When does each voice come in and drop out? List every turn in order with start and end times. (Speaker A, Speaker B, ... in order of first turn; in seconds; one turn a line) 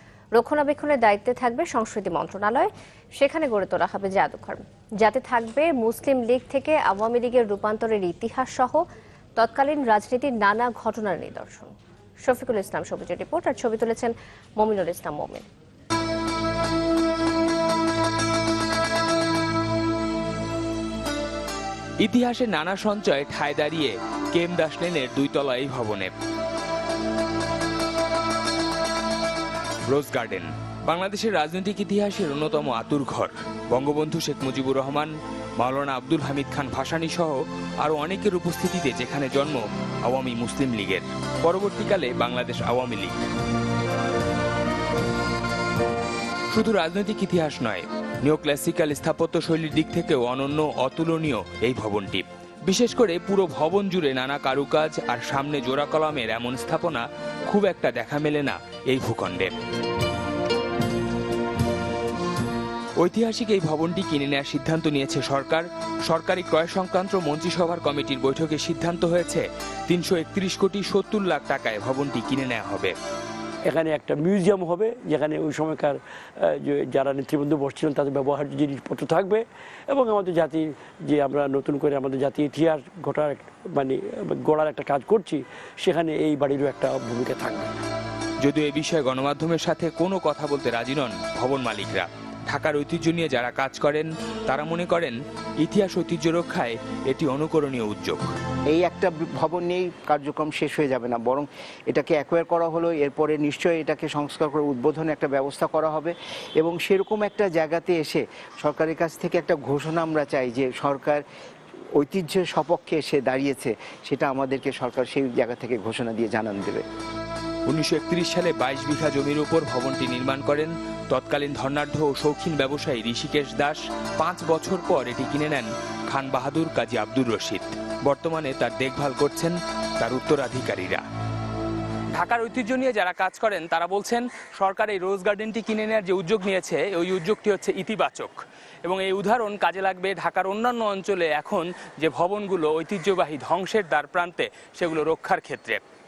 Speaker A: 0.3-8.8
Speaker A: 9.4-15.5
Speaker B: 22.0-26.1
Speaker B: 29.9-43.2
Speaker B: 46.5-59.5
Speaker B: 63.0-73.0
Speaker C: 73.7-87.7
Speaker B: 88.4-98.3
Speaker D: 98.7-111.2
Speaker D: 112.0-116.8
Speaker B: 117.7-131.0
Speaker B: 132.1-145.8